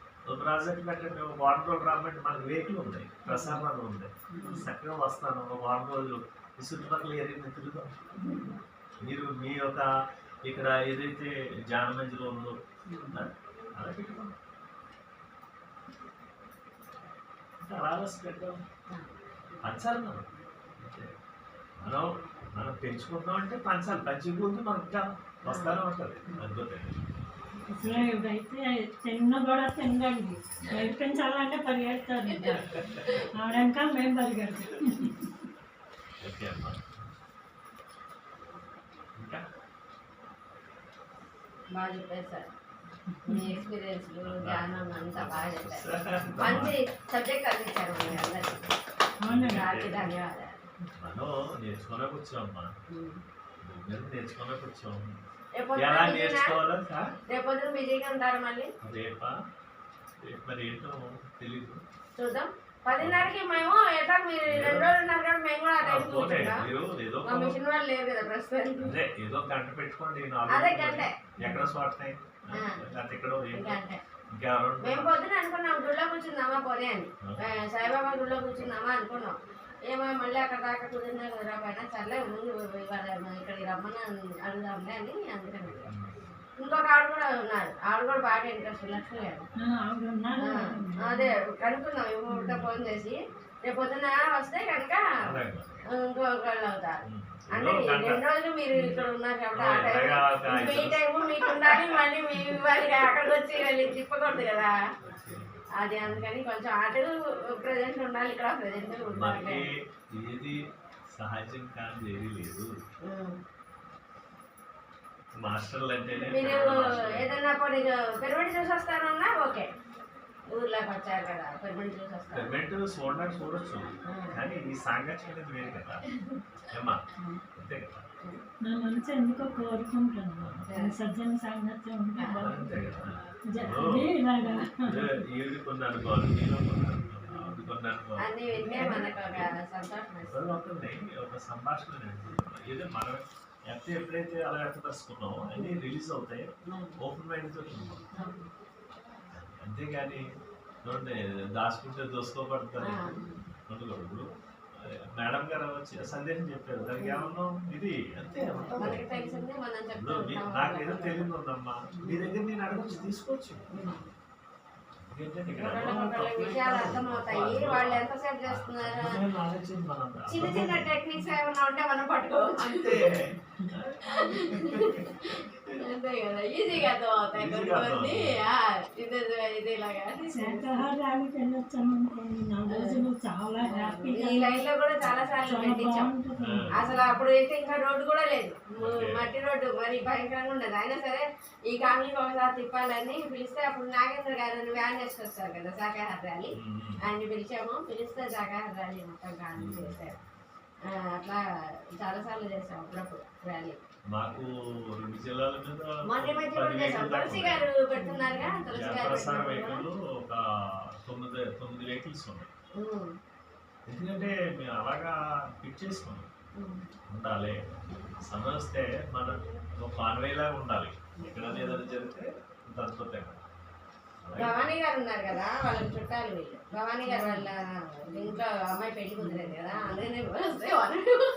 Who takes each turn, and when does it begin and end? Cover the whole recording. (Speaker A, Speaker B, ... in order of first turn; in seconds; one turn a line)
Speaker A: 0.3-8.0
Speaker B: 4.3-4.7
Speaker B: 8.2-8.5
Speaker A: 9.0-9.9
Speaker A: 10.4-12.6
Speaker B: 12.9-13.2
Speaker A: 13.1-14.3
Speaker A: 17.6-18.6
Speaker A: 19.6-20.2
Speaker A: 20.8-21.1
Speaker A: 21.8-26.9
Speaker B: 25.5-26.4
Speaker C: 27.7-35.3
Speaker A: 27.8-28.1
Speaker B: 32.4-33.2
Speaker A: 32.4-33.0
Speaker A: 36.2-36.9
Speaker A: 39.2-39.4
Speaker B: 41.7-42.5
Speaker C: 43.2-43.5
Speaker B: 43.2-48.6
Speaker A: 44.2-46.8
Speaker A: 47.9-48.7
Speaker C: 49.2-49.7
Speaker A: 49.2-50.1
Speaker B: 49.5-50.5
Speaker A: 51.0-52.7
Speaker B: 52.9-53.2
Speaker A: 53.6-55.2
Speaker B: 55.6-56.6
Speaker A: 55.8-57.0
Speaker B: 57.3-58.7
Speaker A: 58.8-59.3
Speaker A: 60.2-61.8
Speaker B: 62.2-66.7
Speaker A: 63.0-63.3
Speaker A: 64.5-64.9
Speaker A: 65.8-67.5
Speaker B: 67.2-69.0
Speaker A: 68.8-73.8
Speaker B: 70.5-71.6
Speaker B: 72.5-72.8
Speaker B: 73.5-74.0
Speaker A: 74.3-75.1
Speaker B: 74.8-79.4
Speaker B: 79.9-85.9
Speaker A: 85.8-86.4
Speaker B: 86.6-89.5
Speaker C: 89.6-91.3
Speaker B: 90.4-95.0
Speaker C: 92.3-92.6
Speaker A: 95.2-95.8
Speaker B: 95.9-97.0
Speaker A: 97.0-98.2
Speaker B: 97.5-104.8
Speaker C: 98.7-99.0
Speaker A: 99.5-101.8
Speaker A: 105.0-106.3
Speaker B: 105.8-109.7
Speaker A: 109.1-110.6
Speaker A: 111.1-112.7
Speaker B: 113.0-113.4
Speaker A: 115.4-117.4
Speaker B: 116.1-119.7
Speaker B: 120.5-122.5
Speaker A: 122.3-126.0
Speaker B: 124.1-124.4
Speaker A: 126.7-127.0
Speaker A: 127.5-128.0
Speaker C: 128.6-132.7
Speaker A: 130.4-130.7
Speaker B: 130.7-130.9
Speaker B: 132.2-132.5
Speaker A: 132.4-134.0
Speaker C: 133.4-135.1
Speaker A: 134.8-139.5
Speaker B: 138.2-140.4
Speaker A: 140.2-148.1
Speaker B: 146.7-147.0
Speaker B: 148.1-148.5
Speaker A: 149.3-150.2
Speaker A: 150.8-154.3
Speaker B: 152.8-153.4
Speaker A: 154.8-159.1
Speaker B: 157.0-157.3
Speaker B: 158.6-161.3
Speaker A: 159.9-163.9
Speaker B: 162.0-163.1
Speaker B: 163.7-164.1
Speaker A: 165.1-171.0
Speaker B: 165.5-169.2
Speaker B: 170.3-173.1
Speaker A: 172.6-175.5
Speaker B: 174.0-180.9
Speaker A: 176.7-178.3
Speaker C: 180.2-187.0
Speaker B: 182.7-183.0
Speaker B: 183.6-186.1
Speaker A: 186.3-186.8
Speaker B: 186.8-200.2
Speaker A: 188.8-189.3
Speaker A: 196.5-197.0
Speaker A: 199.5-200.2
Speaker B: 200.9-201.4
Speaker B: 202.0-203.8
Speaker A: 204.1-207.7
Speaker B: 206.0-209.8
Speaker A: 208.7-210.4
Speaker A: 211.0-212.5
Speaker B: 212.8-213.1
Speaker A: 213.9-216.3
Speaker B: 216.6-216.8
Speaker A: 217.1-217.6
Speaker A: 218.2-223.4
Speaker B: 221.2-221.8
Speaker A: 224.2-224.7
Speaker B: 224.4-231.3
Speaker C: 227.1-227.5